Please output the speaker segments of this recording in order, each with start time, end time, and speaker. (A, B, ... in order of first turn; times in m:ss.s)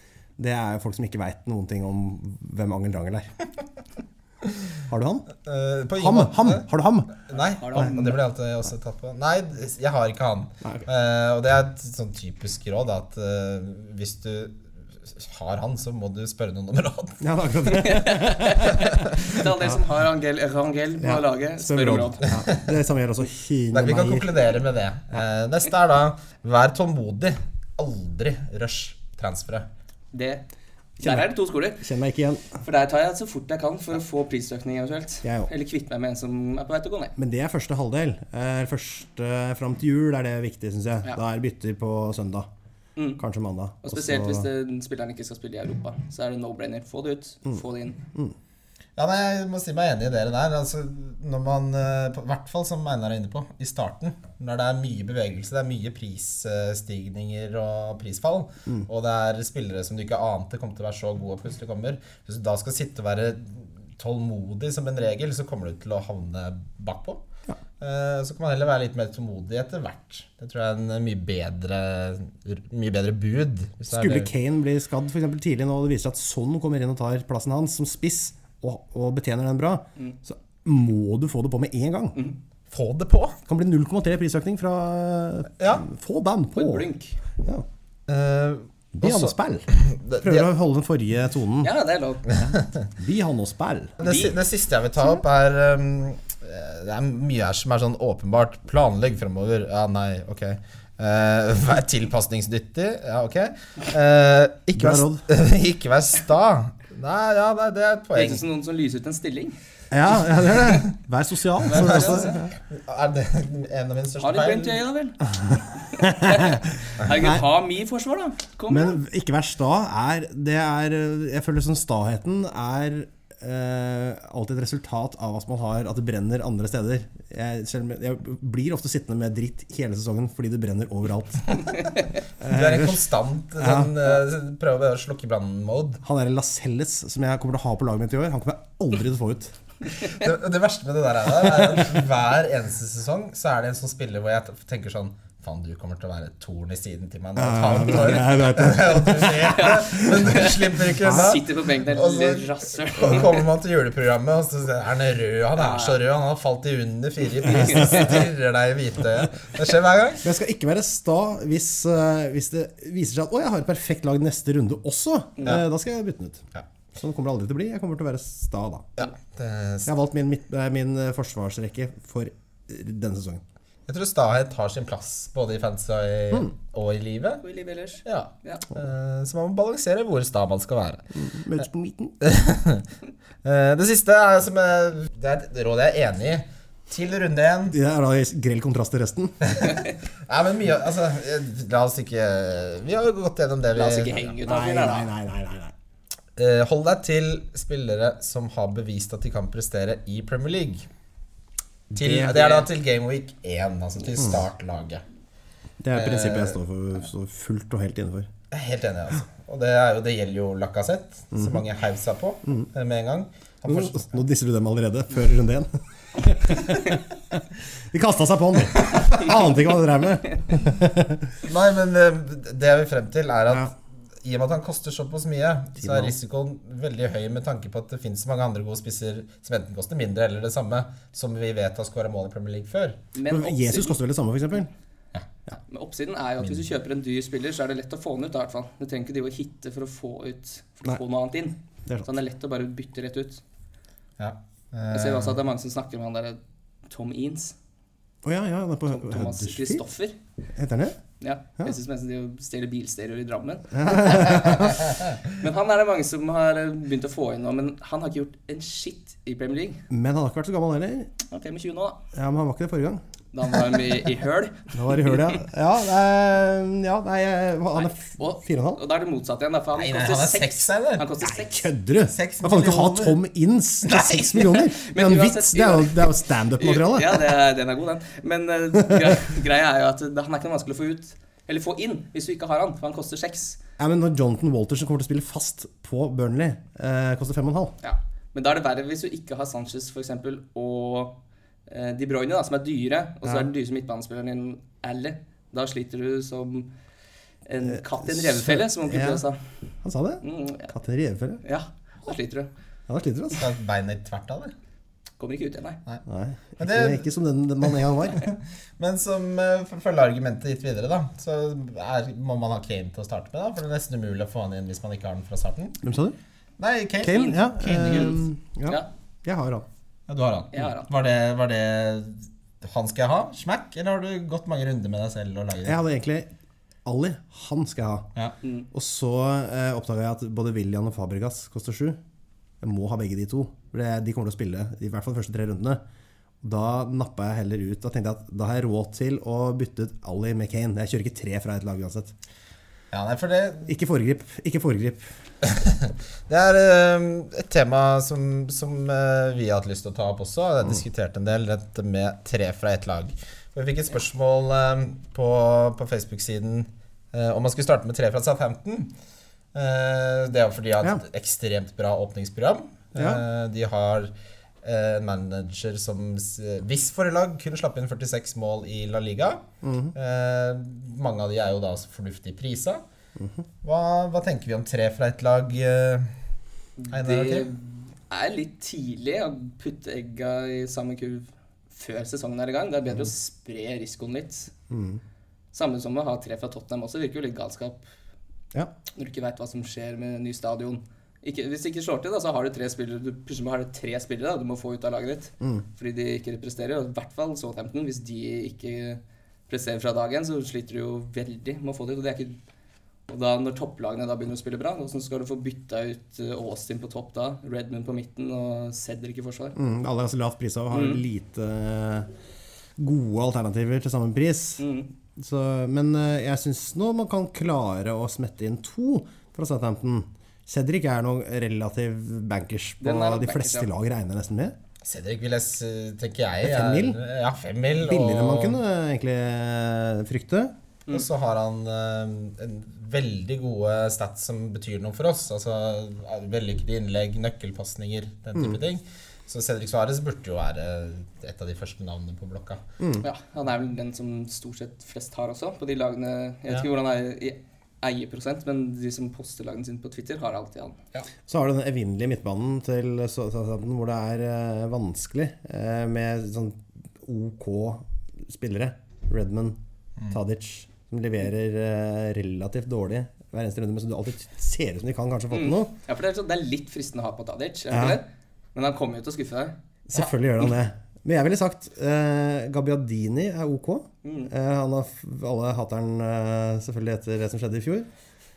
0:00.4-0:03.3 A
0:04.9-0:05.3 A
0:05.4-0:06.6 B
0:06.0-0:07.1 A
0:07.2-0:17.2 B
0:07.4-0:08.1 C
0:07.7-0:08.0 A
0:17.2-0:19.8 A
0:17.6-0:22.2 C
0:21.0-0:24.3 A
0:22.3-0:22.7 B
0:23.7-0:29.7 B
0:30.1-0:30.4 C
0:31.0-0:31.3 A
0:31.0-0:31.8 C
0:31.8-0:32.5 A
0:32.6-0:37.1 C
0:35.2-0:35.5 A
0:37.2-0:42.5 A
0:43.2-0:44.5 A
0:43.8-0:48.0 C
0:49.0-1:07.2 B
1:07.8-1:14.3 B
1:13.9-1:22.2 A
1:22.7-1:23.4 B
1:23.4-1:26.9 A
1:25.6-1:25.8 B
1:26.5-1:27.2 C
1:28.1-1:30.5 B
1:29.0-1:29.7 A
1:30.2-1:31.7 A
1:31.6-1:32.3 C
1:32.3-1:34.0 A
1:32.3-1:32.7 B
1:34.0-1:48.4 B
1:34.0-1:34.4 C
1:44.8-1:45.2 A
1:48.1-1:49.6 C
1:49.9-1:52.5 A
1:51.6-1:52.4 C
1:51.7-1:54.8 B
1:54.2-1:59.0 C
1:56.0-1:57.4 A
1:58.7-2:11.7 A
2:12.4-2:13.0 A
2:12.4-2:16.0 B
2:13.6-2:14.2 A
2:16.0-2:19.5 A
2:19.9-2:40.2 B
2:27.4-2:31.4 A
2:29.4-2:33.4 C
2:35.6-2:36.0 C
2:37.4-2:38.1 C
2:40.2-2:48.9 A
2:49.0-2:49.9 B
2:49.8-2:53.4 A
2:53.9-2:57.4 B
2:57.4-2:58.6 C
2:58.0-3:01.1 B
3:01.1-3:02.2 A
3:02.2-3:02.8 B
3:03.4-3:07.8 B
3:07.7-3:09.4 A
3:09.4-3:14.3 B
3:13.7-3:15.1 C
3:14.4-3:15.7 A
3:16.4-3:20.8 B
3:21.9-3:22.5 A
3:22.0-3:25.0 B
3:22.3-3:22.6 C
3:25.8-3:28.3 A
3:25.9-3:26.6 B
3:28.5-3:34.2 B
3:31.3-3:31.6 A
3:33.6-3:41.4 A
3:41.4-3:53.0 B
3:45.8-3:46.1 A
3:53.1-3:54.0 C
3:53.2-3:54.7 A
3:55.6-4:03.4 C
4:04.2-4:05.4 B
4:04.9-4:07.6 C
4:08.2-4:09.8 A
4:08.9-4:10.2 C
4:10.6-4:11.0 A
4:11.2-4:19.8 C
4:13.7-4:14.9 A
4:19.9-4:21.1 A
4:21.3-4:22.0 C
4:22.1-4:23.0 A
4:23.3-4:25.4 C
4:24.7-4:28.8 A
4:27.7-4:31.7 C
4:29.7-4:31.1 B
4:31.2-4:37.4 A
4:32.1-4:33.2 B
4:33.9-4:34.3 B
4:34.4-4:43.6 C
4:38.8-4:39.1 A
4:43.8-4:47.7 A
4:47.8-4:56.7 C
4:57.4-4:59.4 C
4:57.6-4:59.2 A
4:59.8-5:01.4 A
5:00.2-5:00.7 C
5:01.4-5:02.5 C
5:02.9-5:03.4 A
5:03.3-5:04.5 B
5:05.2-5:05.8 C
5:06.0-5:08.3 A
5:06.6-5:07.1 B
5:08.2-5:15.8 B
5:15.8-5:16.2 A
5:16.6-5:18.2 B
5:17.0-5:19.6 A
5:20.1-5:25.8 B
5:20.5-5:20.9 C
5:25.6-5:26.3 A
5:26.8-5:28.1 A
5:28.7-5:32.0 A
5:32.6-5:35.8 A
5:36.4-5:42.1 A
5:42.9-5:43.8 B
5:43.7-5:45.0 A
5:45.4-5:58.9 B
5:59.5-6:04.1 B
6:03.0-6:03.2 A
6:04.6-6:09.4 B
6:09.6-6:09.9 A
6:09.9-6:12.8 B
6:13.2-6:13.4 A
6:13.6-6:16.1 B
6:16.8-6:24.5 C
6:16.9-6:17.5 B
6:24.7-6:25.0 A
6:25.5-6:27.8 C
6:29.0-6:42.4 C
6:43.1-6:49.6 C
6:49.5-6:52.1 A
6:50.7-6:51.0 C
6:52.8-6:54.6 A
6:54.6-6:54.9 C
6:55.2-7:04.6 A
7:02.8-7:03.7 C
7:04.8-7:08.6 B
7:06.4-7:07.0 A
7:07.8-7:10.5 A
7:10.9-7:22.6 B
7:22.8-7:23.0 A
7:23.0-7:30.8 C
7:31.3-7:45.7 A
7:45.3-7:49.6 C
7:47.7-7:48.0 A
7:49.9-7:57.9 A
7:54.0-7:54.3 C